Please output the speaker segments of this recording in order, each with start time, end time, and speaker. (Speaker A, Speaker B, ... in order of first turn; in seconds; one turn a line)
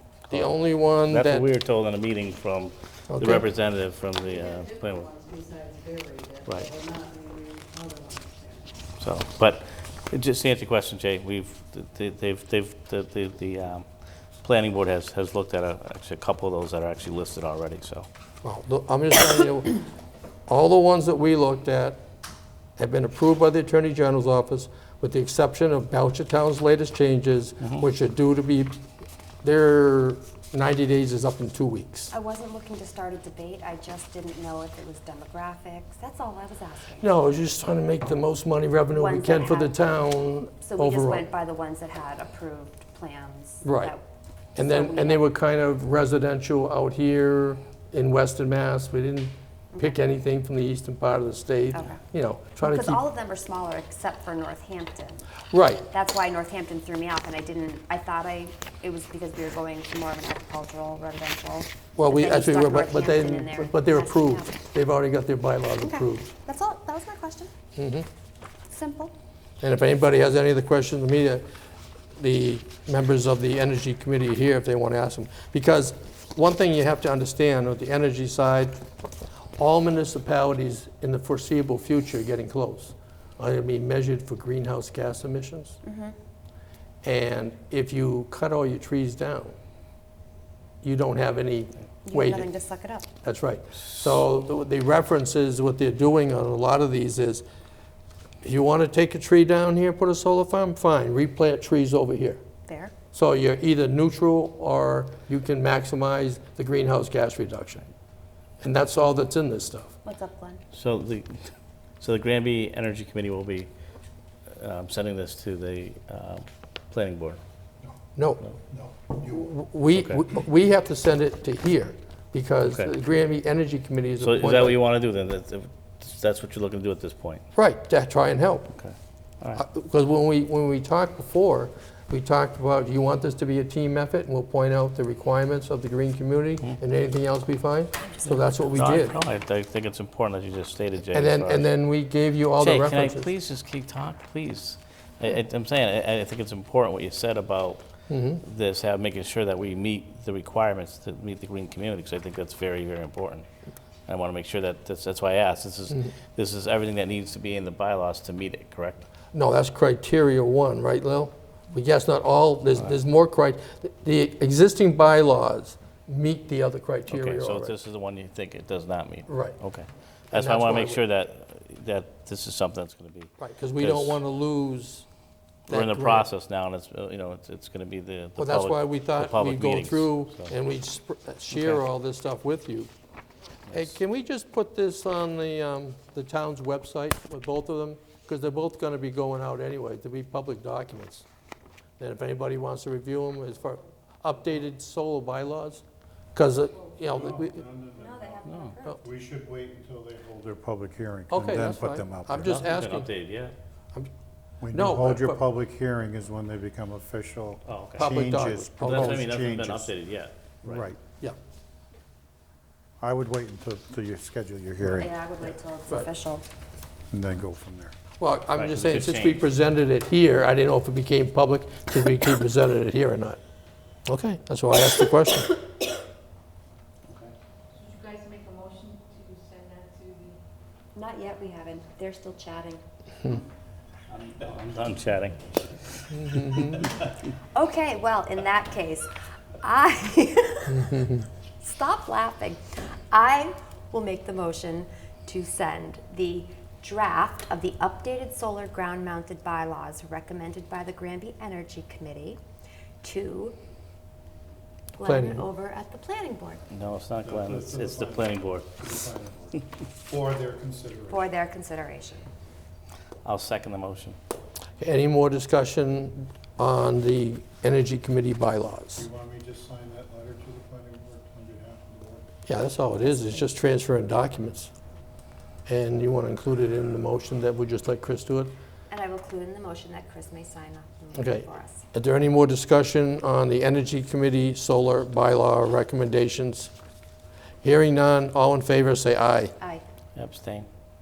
Speaker A: 0.3-1.5
Speaker B: 1.1-5.1
Speaker A: 3.1-3.5
Speaker C: 4.6-8.7
Speaker B: 6.5-6.7
Speaker B: 9.0-13.8
Speaker B: 14.4-18.1
Speaker A: 18.4-19.8
Speaker A: 20.5-22.0
Speaker A: 22.8-28.8
Speaker A: 29.4-32.1
Speaker D: 32.1-37.1
Speaker A: 37.0-41.3
Speaker D: 38.9-39.7
Speaker D: 40.6-44.0
Speaker A: 43.6-43.9
Speaker D: 44.5-45.2
Speaker A: 44.5-53.0
Speaker D: 51.7-52.0
Speaker D: 52.6-55.3
Speaker A: 55.5-55.8
Speaker D: 55.9-64.5
Speaker A: 62.0-66.3
Speaker D: 65.8-67.5
Speaker A: 67.8-68.1
Speaker D: 68.7-69.1
Speaker A: 69.6-71.5
Speaker A: 72.2-78.8
Speaker A: 79.6-85.8
Speaker D: 85.8-86.1
Speaker A: 87.0-89.5
Speaker A: 90.8-92.5
Speaker D: 92.0-93.1
Speaker A: 93.2-97.4
Speaker A: 98.4-102.4
Speaker D: 102.7-102.9
Speaker A: 103.1-107.9
Speaker A: 108.6-109.9
Speaker D: 110.0-110.6
Speaker B: 110.7-113.7
Speaker B: 114.5-117.4
Speaker A: 118.2-118.4
Speaker E: 118.7-119.3
Speaker A: 119.2-124.8
Speaker B: 124.2-127.4
Speaker A: 127.5-128.7
Speaker B: 128.7-129.6
Speaker A: 129.5-139.2
Speaker D: 138.0-138.4
Speaker B: 138.7-141.7
Speaker A: 141.1-143.3
Speaker B: 142.6-147.8
Speaker A: 148.1-148.4
Speaker B: 148.4-153.4
Speaker B: 154.1-159.1
Speaker A: 159.3-167.8
Speaker B: 167.1-174.2
Speaker A: 169.3-169.6
Speaker A: 170.3-171.0
Speaker A: 173.4-175.1
Speaker A: 175.7-176.3
Speaker B: 175.7-180.5
Speaker A: 178.4-182.9
Speaker B: 181.5-181.8
Speaker A: 183.7-191.2
Speaker A: 192.0-195.8
Speaker A: 196.3-197.6
Speaker E: 197.1-202.6
Speaker D: 197.9-199.0
Speaker B: 198.4-198.8
Speaker A: 201.3-203.1
Speaker B: 202.4-203.5
Speaker E: 204.6-209.9
Speaker A: 204.7-205.4
Speaker B: 207.7-208.1
Speaker A: 208.0-209.2
Speaker B: 208.8-210.8
Speaker E: 210.6-211.0
Speaker E: 213.0-215.2
Speaker D: 214.8-216.4
Speaker E: 217.1-217.9
Speaker A: 218.2-223.4
Speaker B: 218.6-219.4
Speaker A: 224.1-225.6
Speaker C: 227.8-230.3
Speaker D: 230.9-232.8
Speaker B: 234.1-237.1
Speaker A: 236.1-236.8
Speaker D: 237.5-252.4
Speaker D: 253.0-253.6
Speaker D: 254.9-256.6
Speaker A: 255.0-255.4
Speaker B: 256.7-258.7
Speaker E: 257.2-261.3
Speaker D: 261.1-262.3
Speaker B: 263.2-264.2
Speaker A: 264.8-269.1
Speaker E: 269.0-272.3
Speaker A: 272.4-274.7
Speaker A: 275.6-278.5
Speaker D: 278.9-281.8
Speaker A: 281.1-286.7
Speaker A: 287.6-289.5
Speaker B: 290.1-290.7